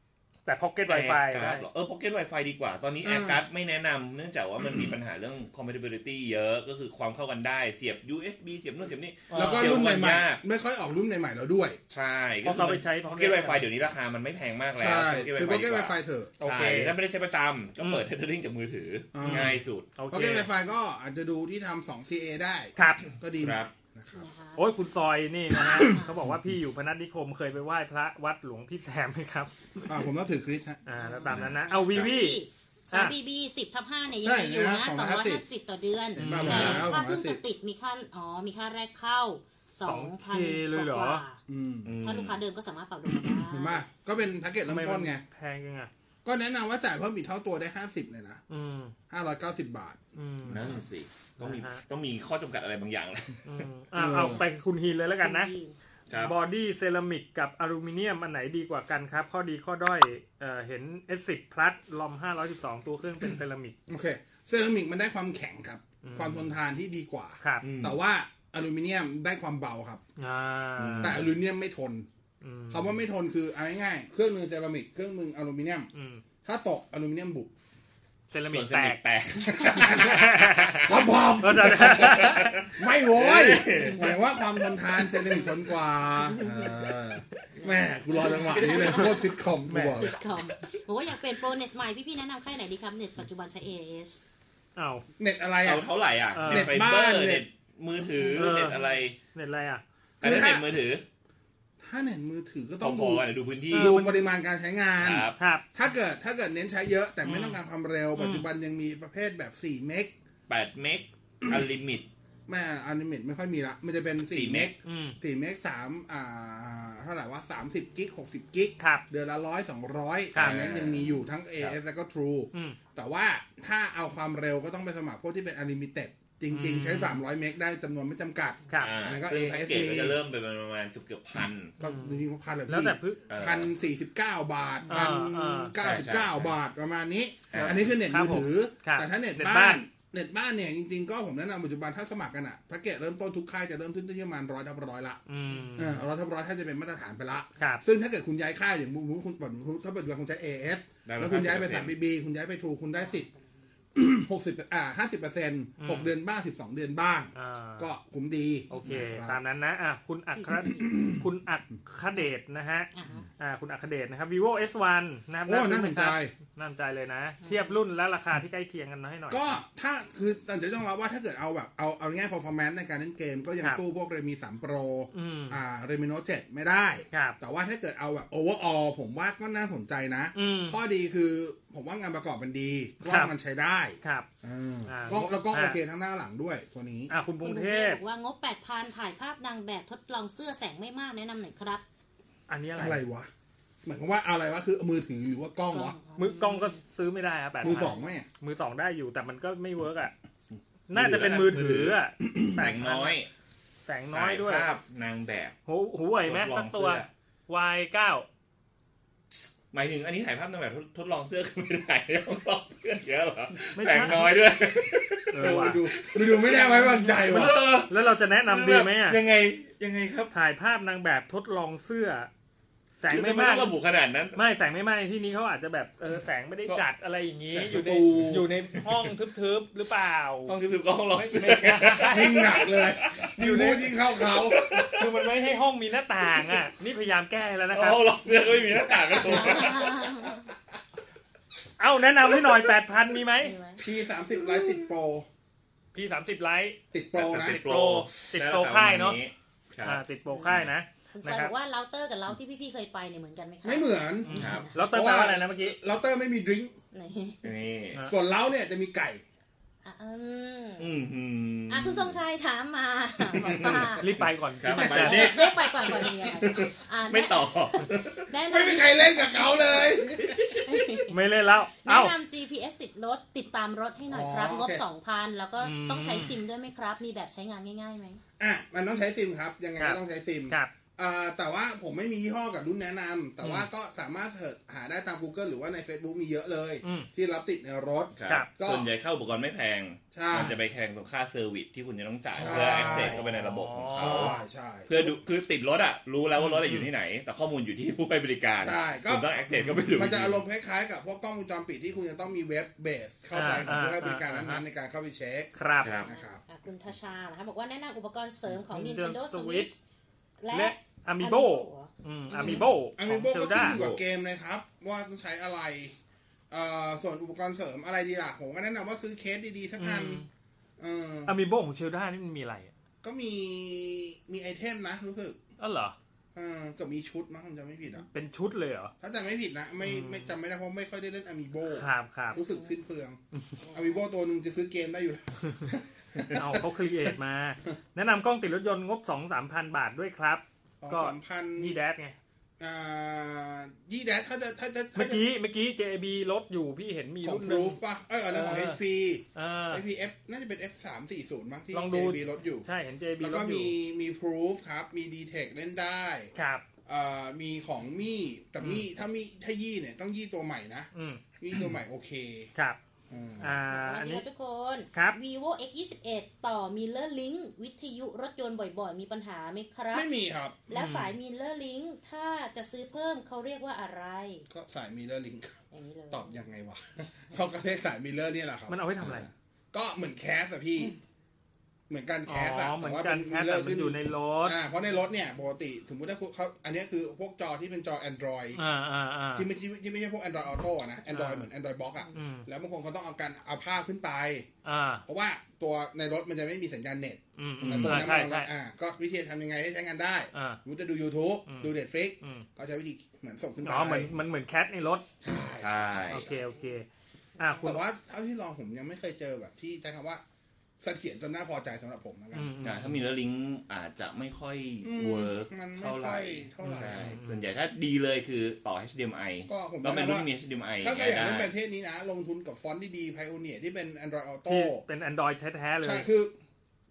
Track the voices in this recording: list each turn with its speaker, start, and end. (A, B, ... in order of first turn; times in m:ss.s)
0:00.4-0:01.6 A
0:00.8-0:10.4 B
0:03.0-0:03.4 C
0:09.3-0:09.8 A
0:09.3-0:11.8 C
0:11.9-0:19.9 B
0:12.4-0:13.6 A
0:14.8-0:16.3 C
0:16.4-0:17.0 A
0:19.1-0:19.6 C
0:19.2-0:20.5 A
0:20.1-0:24.3 C
0:22.8-0:23.0 A
0:23.4-0:23.7 B
0:24.1-0:24.6 D
0:24.6-0:30.0 A
0:25.5-0:26.3 C
0:25.7-0:26.2 D
0:29.9-0:30.8 C
0:30.8-0:32.4 A
0:31.0-0:41.4 D
0:31.3-0:32.1 B
0:34.2-0:35.4 C
0:36.2-0:36.9 B
0:36.2-0:37.4 C
0:36.2-0:36.8 A
0:39.8-0:41.2 A
0:41.5-0:41.9 C
0:41.8-0:42.4 B
0:42.0-0:43.8 D
0:43.3-0:45.2 C
0:44.6-0:45.9 A
0:46.2-0:48.4 C
0:48.5-0:48.9 A
0:49.1-0:50.0 C
0:50.1-0:50.7 A
0:50.5-0:53.6 B
0:51.4-0:51.8 A
0:53.4-0:55.5 A
0:54.0-0:54.4 C
0:55.2-0:55.8 D
0:56.2-1:03.8 A
1:03.9-1:10.0 C
1:06.0-1:06.5 A
1:07.4-1:07.6 A
1:07.6-1:08.0 B
1:10.2-1:11.2 A
1:10.8-1:11.3 B
1:11.0-1:12.1 C
1:12.4-1:13.0 A
1:12.7-1:15.9 C
1:15.9-1:16.2 A
1:16.4-1:17.5 C
1:18.3-1:19.0 A
1:18.5-1:21.0 B
1:19.5-1:30.1 C
1:19.6-1:20.9 A
1:21.4-1:22.5 A
1:21.8-1:24.1 B
1:23.8-1:24.1 D
1:26.1-1:26.9 D
1:27.6-1:29.2 D
1:28.5-1:29.1 B
1:29.7-1:30.1 A
1:29.9-1:34.2 D
1:34.8-1:35.0 A
1:35.2-1:35.9 C
1:35.6-1:39.2 B
1:36.3-1:36.7 A
1:36.4-1:37.4 C
1:38.2-1:38.6 D
1:38.4-1:38.8 A
1:39.3-1:39.8 A
1:40.2-1:40.7 C
1:40.2-1:41.0 B
1:41.8-1:50.1 C
1:42.8-1:44.0 B
1:43.7-1:44.2 A
1:45.0-1:45.3 B
1:45.4-1:45.6 A
1:47.2-1:47.6 A
1:48.2-1:48.5 A
1:50.5-1:52.1 B
1:52.5-2:10.2 C
1:54.3-1:54.7 B
1:54.8-1:55.2 A
1:58.8-1:59.0 A
2:00.4-2:01.1 B
2:06.5-2:07.2 A
2:08.8-2:11.7 B
2:11.8-2:25.2 C
2:11.8-2:13.2 A
2:13.3-2:13.7 B
2:14.9-2:15.7 A
2:15.8-2:16.5 B
2:17.5-2:17.9 B
2:17.6-2:19.8 A
2:25.3-2:26.0 A
2:25.7-2:33.3 C
2:31.0-2:31.9 B
2:33.0-2:33.4 D
2:33.9-2:39.4 C
2:35.8-2:36.1 A
2:37.3-2:37.9 A
2:38.7-2:38.9 D
2:38.7-2:49.6 A
2:40.3-2:40.8 D
2:40.7-2:41.2 C
2:42.9-2:43.2 D
2:45.5-2:46.3 C
2:47.4-2:47.8 D
2:49.3-3:07.1 C
2:55.1-2:55.6 A
2:57.1-2:57.4 A
3:00.3-3:00.8 A
3:03.0-3:03.3 A
3:04.0-3:04.3 A
3:04.9-3:05.8 A
3:07.1-3:08.0 A
3:07.4-3:11.8 D
3:12.5-3:13.0 A
3:12.8-3:13.3 C
3:13.8-3:16.0 C
3:15.7-3:16.8 D
3:16.1-3:20.1 A
3:17.6-3:18.2 C
3:20.9-3:23.2 A
3:20.9-3:23.3 B
3:21.1-3:21.5 C
3:22.2-3:22.6 C
3:23.8-3:24.7 A
3:24.1-3:25.6 B
3:25.6-3:28.2 A
3:26.2-3:27.1 B
3:29.7-3:40.3 B
3:33.7-3:34.3 A
3:35.3-3:35.8 A
3:35.4-3:37.6 C
3:37.3-3:39.2 A
3:40.3-3:42.3 A
3:43.0-3:43.7 A
3:43.1-3:44.4 B
3:44.3-3:50.6 A
3:47.5-3:48.2 B
3:47.6-3:48.5 C
3:48.7-3:49.1 B
3:50.5-3:53.3 B
3:51.1-3:52.6 A
3:52.1-3:54.6 C
3:53.4-3:53.9 A
3:54.2-3:55.1 B
3:54.9-3:58.0 A
3:57.7-4:00.3 B
3:59.2-4:00.5 D
4:01.8-4:03.5 A
4:03.4-4:03.8 D
4:03.8-4:05.3 C
4:04.5-4:04.8 B
4:05.9-4:06.8 A
4:06.9-4:07.6 C
4:07.2-4:10.7 B
4:07.4-4:09.2 A
4:09.8-4:11.5 A
4:10.3-4:10.6 D
4:11.1-4:14.8 D
4:13.6-4:16.7 C
4:14.2-4:15.8 A
4:14.3-4:14.7 B
4:16.9-4:17.4 D
4:17.4-4:18.0 B
4:18.0-4:19.2 C
4:19.8-4:20.9 D
4:20.8-4:22.2 B
4:21.7-4:24.2 D
4:23.4-4:28.3 B
4:24.0-4:25.3 A
4:24.7-4:31.1 D
4:25.0-4:26.5 C
4:28.4-4:30.6 C
4:31.1-4:32.1 A
4:31.8-4:38.2 D
4:34.1-4:34.8 C
4:35.6-4:36.4 A
4:38.4-4:48.9 C
4:39.8-4:40.7 A
4:46.8-4:47.1 A
4:48.2-5:00.4 B
4:50.1-4:50.6 C
4:52.3-4:53.2 C
4:52.4-4:54.4 A
4:53.9-4:55.2 C
4:56.4-4:56.9 A
4:58.6-4:59.3 C
4:59.9-5:05.5 C
5:03.3-5:04.6 A
5:05.5-5:05.9 A
5:05.8-5:06.1 B
5:06.0-5:09.7 D
5:06.0-5:06.4 C
5:08.7-5:09.7 A
5:10.4-5:12.6 D
5:10.5-5:13.8 A
5:13.0-5:16.0 C
5:13.5-5:14.0 B
5:16.5-5:20.2 C
5:19.8-5:20.3 A
5:20.8-5:21.3 C
5:21.2-5:22.7 A
5:23.0-5:25.4 C
5:25.6-5:25.9 A
5:26.3-5:28.0 C
5:28.1-5:28.9 A
5:29.0-5:33.2 C
5:29.8-5:30.3 A
5:31.7-5:32.4 A
5:32.4-5:32.7 D
5:33.6-5:34.0 D
5:33.7-5:36.6 C
5:36.3-5:42.2 A
5:40.8-5:41.8 C
5:42.6-5:45.2 C
5:44.9-5:47.8 A
5:47.2-5:52.6 C
5:48.3-5:48.8 A
5:49.3-5:49.8 A
5:51.7-5:53.7 A
5:53.2-5:56.3 C
5:56.3-5:56.6 A
5:56.8-6:02.5 C
6:00.9-6:01.2 A
6:03.1-6:03.6 C
6:03.4-6:04.2 A
6:03.7-6:10.1 D
6:09.9-6:10.6 C
6:10.7-6:14.4 D
6:10.7-6:11.1 A
6:14.5-6:18.8 C
6:15.7-6:16.4 D
6:18.7-6:19.3 A
6:19.0-6:19.3 B
6:19.7-6:20.9 C
6:21.9-6:28.6 C
6:22.3-6:24.6 A
6:28.6-6:29.5 A
6:29.3-6:34.5 C
6:31.1-6:31.5 A
6:32.1-6:32.5 A
6:34.6-6:35.0 A
6:35.0-6:44.1 C
6:37.4-6:38.5 A
6:37.6-6:38.1 B
6:40.3-6:40.6 A
6:41.4-6:42.4 A
6:43.6-6:45.0 A
6:45.2-6:46.4 C
6:45.6-6:46.3 B
6:46.1-6:46.8 A
6:47.4-6:47.8 A
6:47.6-6:50.2 C
6:50.8-6:52.5 C
6:52.3-6:53.0 A
6:52.6-7:01.5 B
6:54.8-6:57.1 C
6:56.6-6:57.4 A
6:59.5-7:00.3 C
7:00.8-7:04.8 C
7:04.5-7:06.1 A
7:05.8-7:06.3 C